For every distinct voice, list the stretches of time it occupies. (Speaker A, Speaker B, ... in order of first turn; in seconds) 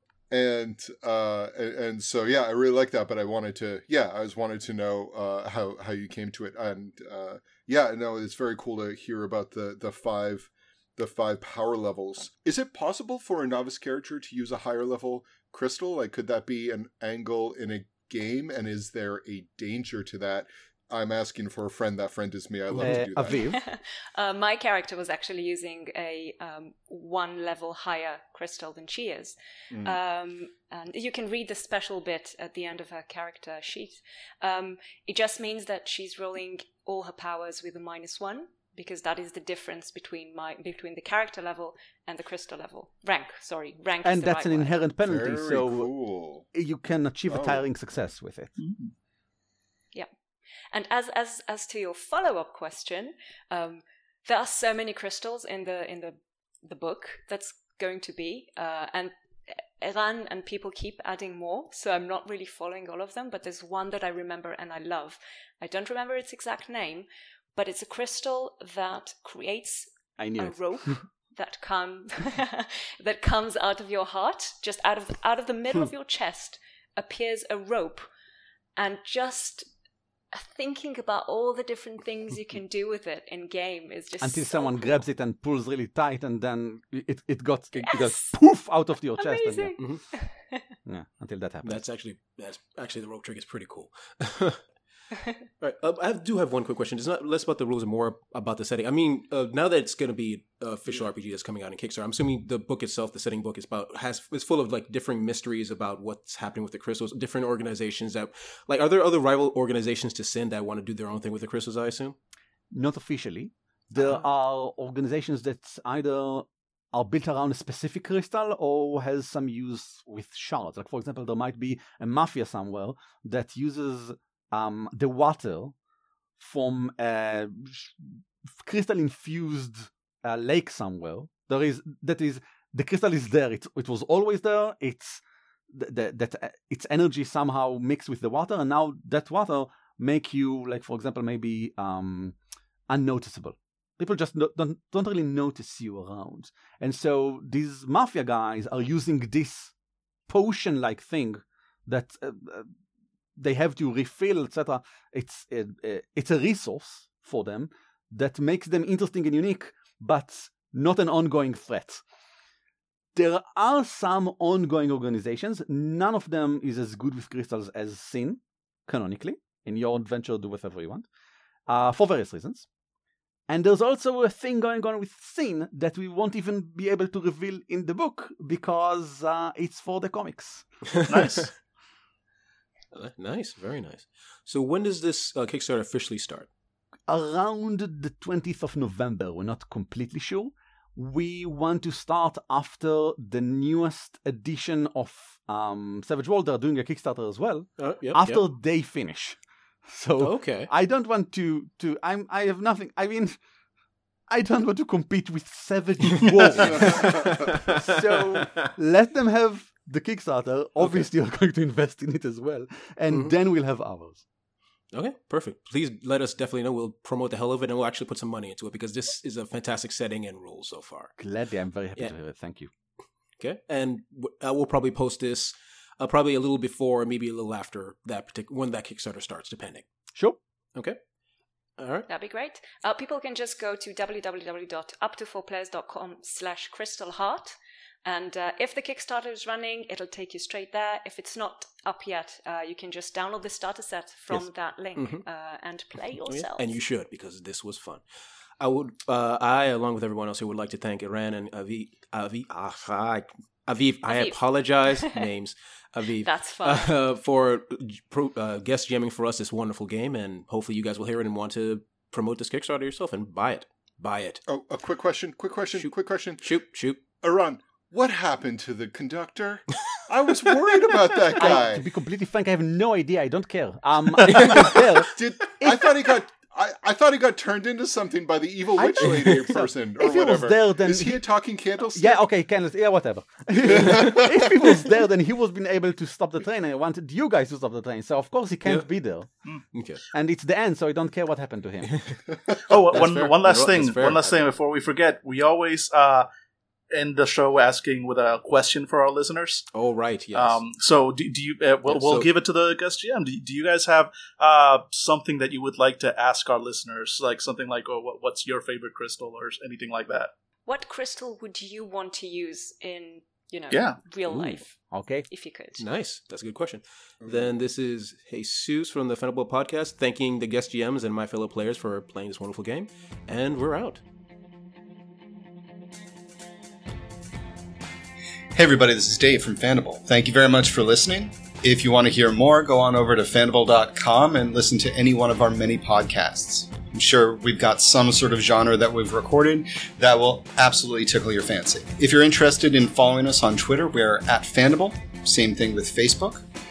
Speaker A: 0.3-23.4, 29.7-30.0, 45.0-46.4, 47.3-47.6, 264.5-266.5, 267.2-271.8, 275.1-282.2, 283.6-284.4, 317.2-317.5
Speaker B: 22.8-23.6, 44.0-45.9, 46.5-48.5, 70.2-71.0, 84.2-89.8, 90.8-91.8, 112.7-125.7, 126.4-142.3, 142.9-149.7, 150.3-152.7, 153.4-162.0, 163.1-171.1, 171.7-172.7, 173.5-180.6, 187.1-203.4, 204.3-214.2, 221.2-222.7, 271.4-276.0, 278.8-281.2, 281.9-289.3, 290.1-292.1, 314.2-315.2
Speaker C: 23.5-44.8, 50.7-78.1, 78.8-79.7, 80.3-85.0, 87.8-88.3, 89.2-90.7, 232.1-246.8, 254.1-255.2, 256.2-256.9, 310.6-314.8, 315.3-315.8
Speaker D: 48.6-48.9, 181.1-181.5, 292.7-296.3, 296.9-299.6, 300.3-310.3, 313.7-314.0
Speaker E: 91.6-94.6, 95.6-112.2, 113.9-114.2, 180.9-181.5, 182.9-186.5, 197.8-198.4, 200.2-200.7, 206.7-208.7, 214.9-221.1, 223.4-229.8, 231.8-232.1, 244.3-245.2, 246.2-248.0, 248.6-264.4, 265.8-267.0, 274.3-274.7, 289.7-290.0, 291.9-292.2, 292.7-294.4, 299.7-300.6, 301.9-302.3, 315.8-324.0
Speaker F: 328.5-346.4